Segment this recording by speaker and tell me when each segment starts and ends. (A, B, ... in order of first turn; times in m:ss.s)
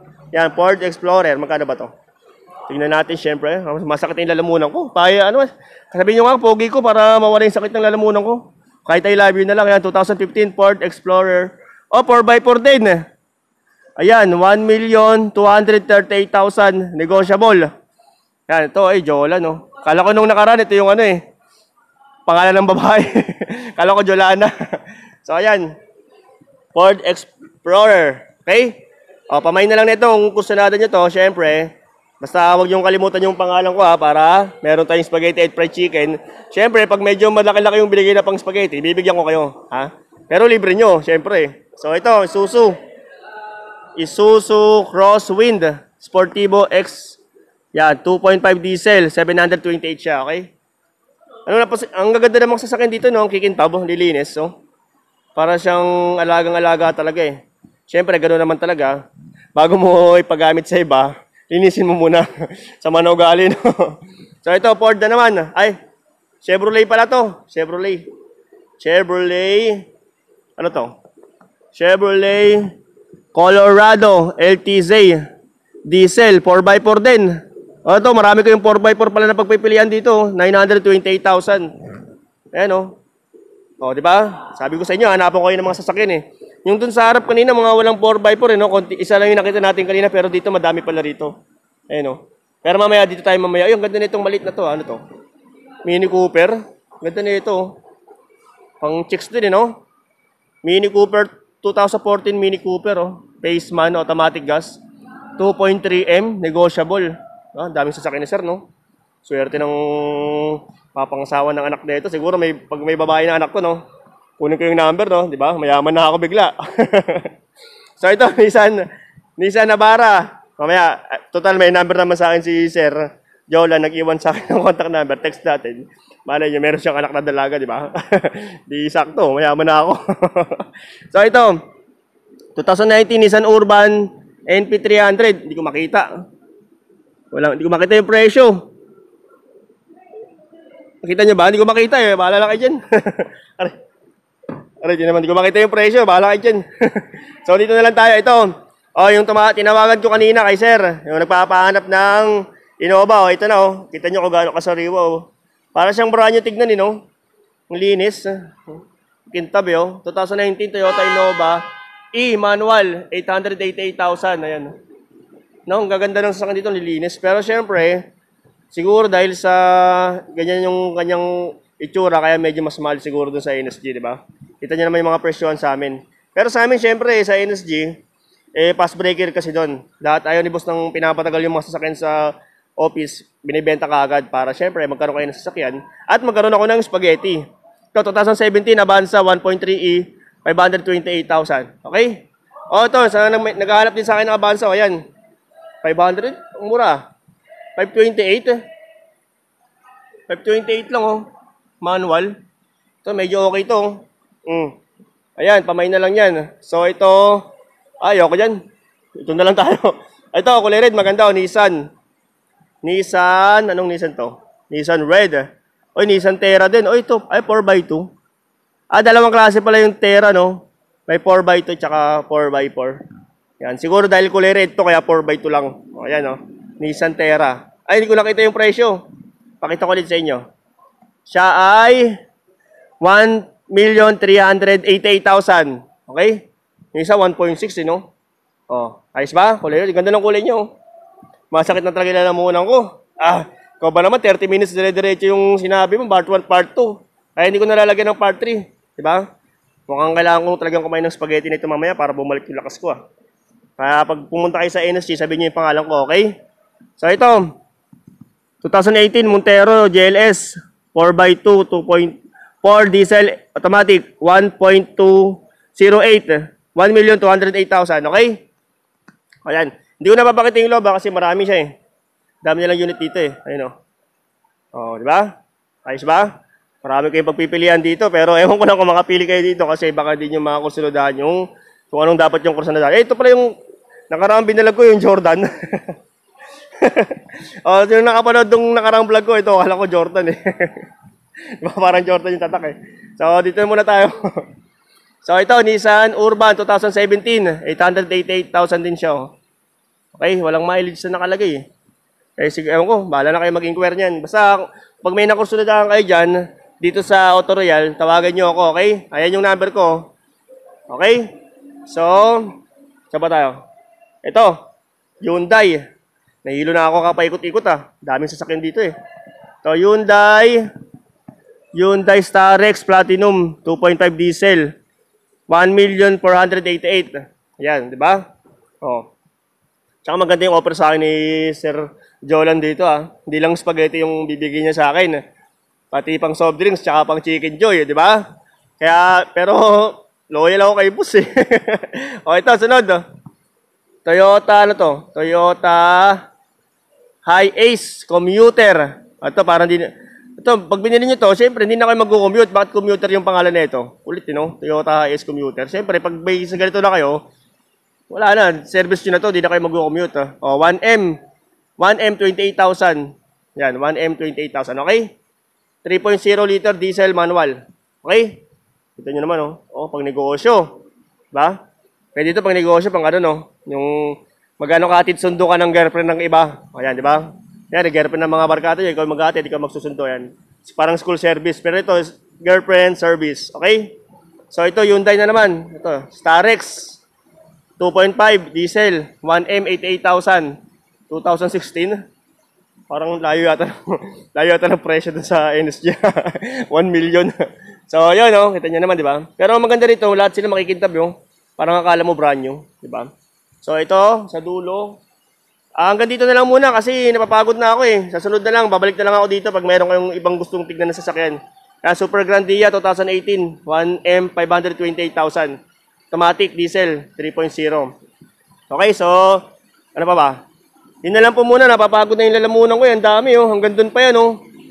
0:00.3-0:01.9 A
0:02.7-0:13.0 A
0:14.0-0:17.7 A
0:18.5-0:21.2 A
0:22.3-0:24.5 A
0:25.2-0:25.7 A
0:26.7-0:42.8 A
0:44.0-0:47.2 A
0:47.7-0:50.5 A
0:51.5-0:54.5 A
0:55.4-0:59.0 A
0:59.6-1:05.8 A
1:06.4-1:08.1 A
1:08.8-1:09.8 A
1:10.6-1:10.9 A
1:11.7-1:12.7 A
1:13.3-1:15.2 A
1:15.9-1:17.3 A
1:17.8-1:21.7 A
1:22.5-1:23.0 A
1:23.8-1:31.3 A
1:31.9-1:35.0 A
1:35.8-1:37.8 A
1:38.8-1:39.8 A
1:40.6-1:44.8 A
1:45.4-1:48.7 A
1:49.2-1:53.8 A
1:54.4-1:57.3 A
1:58.0-1:58.8 A
1:59.4-2:11.6 A
2:12.6-2:16.1 A
2:17.3-2:18.6 A
2:21.0-2:23.8 A
2:24.8-2:37.0 A
2:37.7-2:44.7 A
2:45.7-2:48.0 A
2:48.7-2:58.0 A
2:58.6-3:07.4 A
3:07.9-3:15.0 A
3:15.8-3:17.0 A
3:17.8-3:18.6 A
3:20.3-3:21.3 A
3:21.8-3:22.4 A
3:23.0-3:24.8 A
3:25.4-3:27.5 A
3:28.0-3:28.6 A
3:29.2-3:31.9 A
3:32.8-3:38.1 A
3:38.9-3:43.0 A
3:43.6-3:49.0 A
3:49.6-3:50.4 A
3:51.3-3:52.2 A
3:53.0-3:58.1 A
3:58.7-4:00.7 A
4:01.5-4:09.2 A
4:09.9-4:13.0 A
4:13.8-4:16.3 A
4:17.0-4:17.5 A
4:18.6-4:28.4 A
4:29.5-4:31.7 A
4:32.4-4:33.7 A
4:34.7-4:35.3 A
4:35.9-4:36.3 A
4:36.8-4:43.5 A
4:44.1-4:46.0 A
4:46.8-4:50.9 A
4:51.6-4:54.4 A
4:55.2-4:59.3 A
5:00.2-5:01.6 A
5:02.4-5:10.1 A
5:10.9-5:11.3 A
5:11.9-5:12.5 A
5:13.1-5:13.6 A
5:14.2-5:14.6 A
5:15.2-5:15.8 A
5:16.4-5:18.9 A
5:19.6-5:20.6 A
5:21.8-5:24.7 A
5:25.5-5:28.2 A
5:28.8-5:29.1 A
5:30.0-5:35.2 A
5:35.9-5:38.2 A
5:38.8-5:43.0 A
5:44.1-5:46.2 A
5:47.2-5:57.2 A
5:58.1-6:01.2 A
6:01.8-6:05.1 A
6:05.8-6:08.4 A
6:09.0-6:10.8 A
6:11.3-6:11.6 A
6:12.2-6:24.0 A
6:24.5-6:27.0 A
6:27.8-6:30.6 A
6:31.1-6:32.0 A
6:32.9-6:37.3 A
6:37.9-6:43.1 A
6:43.6-6:45.0 A
6:45.8-6:55.6 A
6:56.1-6:57.9 A
6:58.7-6:59.4 A
7:00.0-7:00.4 A
7:01.0-7:04.4 A